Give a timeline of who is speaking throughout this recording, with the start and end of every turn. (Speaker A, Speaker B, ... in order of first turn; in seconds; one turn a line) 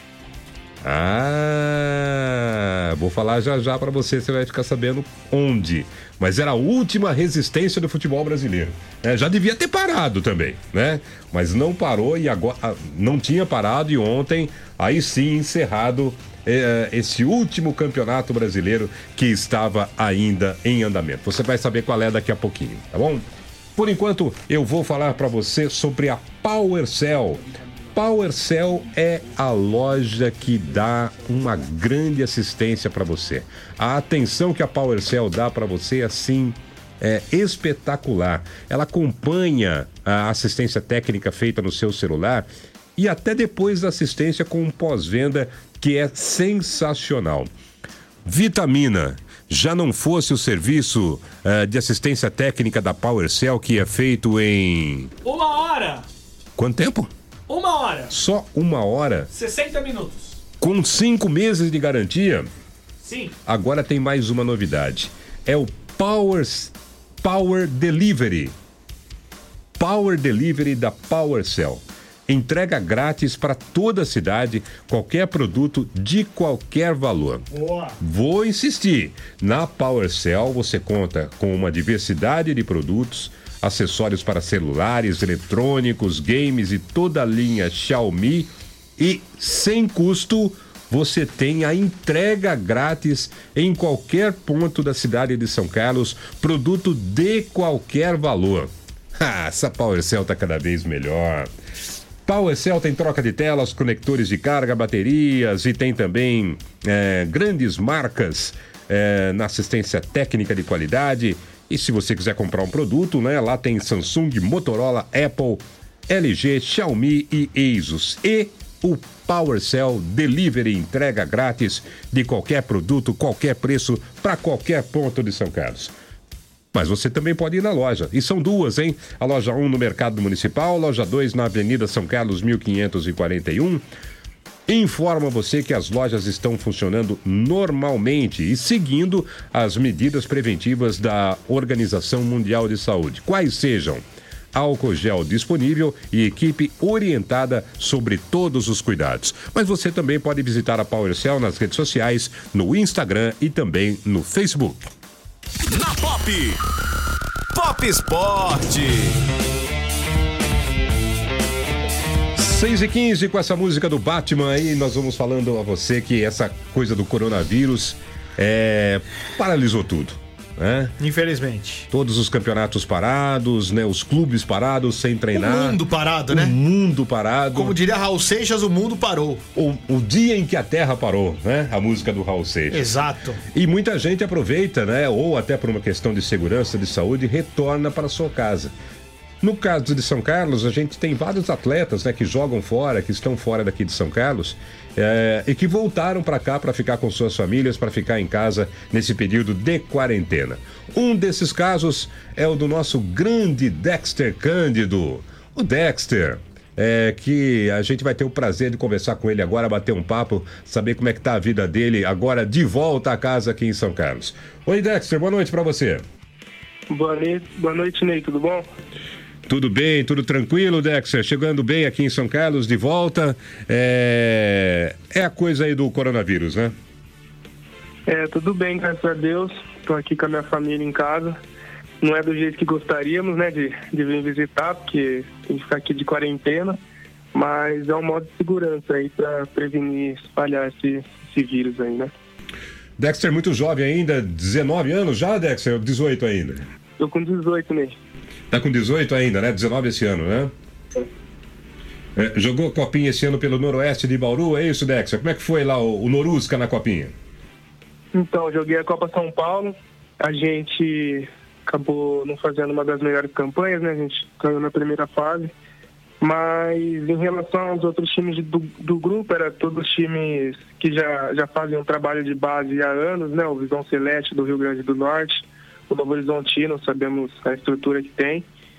Speaker A: 0.8-23.2
Speaker A: 23.8-27.4
Speaker A: 27.9-47.5
Speaker A: 48.2-55.1
Speaker B: 55.2-56.0
Speaker A: 56.6-57.1
Speaker B: 57.5-58.1
Speaker A: 58.1-59.3
Speaker B: 59.3-60.4
Speaker A: 60.6-62.5
Speaker B: 63.0-63.3
Speaker A: 63.5-68.5
Speaker A: 69.8-77.5
Speaker C: 77.5-78.0
Speaker A: 78.0-101.5
Speaker A: 102.2-125.9
Speaker A: 126.7-133.8
Speaker A: 134.7-154.8
Speaker D: 155.7-156.6
Speaker D: 157.5-159.2
Speaker A: 162.3-170.9
Speaker C: 171.0-171.9
Speaker A: 171.9-177.8
Speaker C: 175.3-176.5
Speaker C: 177.5-179.4
Speaker A: 179.5-182.8
Speaker C: 182.7-183.4
Speaker A: 183.5-188.7
Speaker A: 189.4-216.0
Speaker E: 216.9-218.7
Speaker A: 219.4-226.7
Speaker E: 228.1-231.4
Speaker E: 232.0-236.8
Speaker E: 237.3-242.1
Speaker A: 243.0-246.6
Speaker E: 247.0-247.9
Speaker A: 248.5-250.5
Speaker A: 252.2-257.1
Speaker E: 258.1-265.5
Speaker E: 266.2-278.4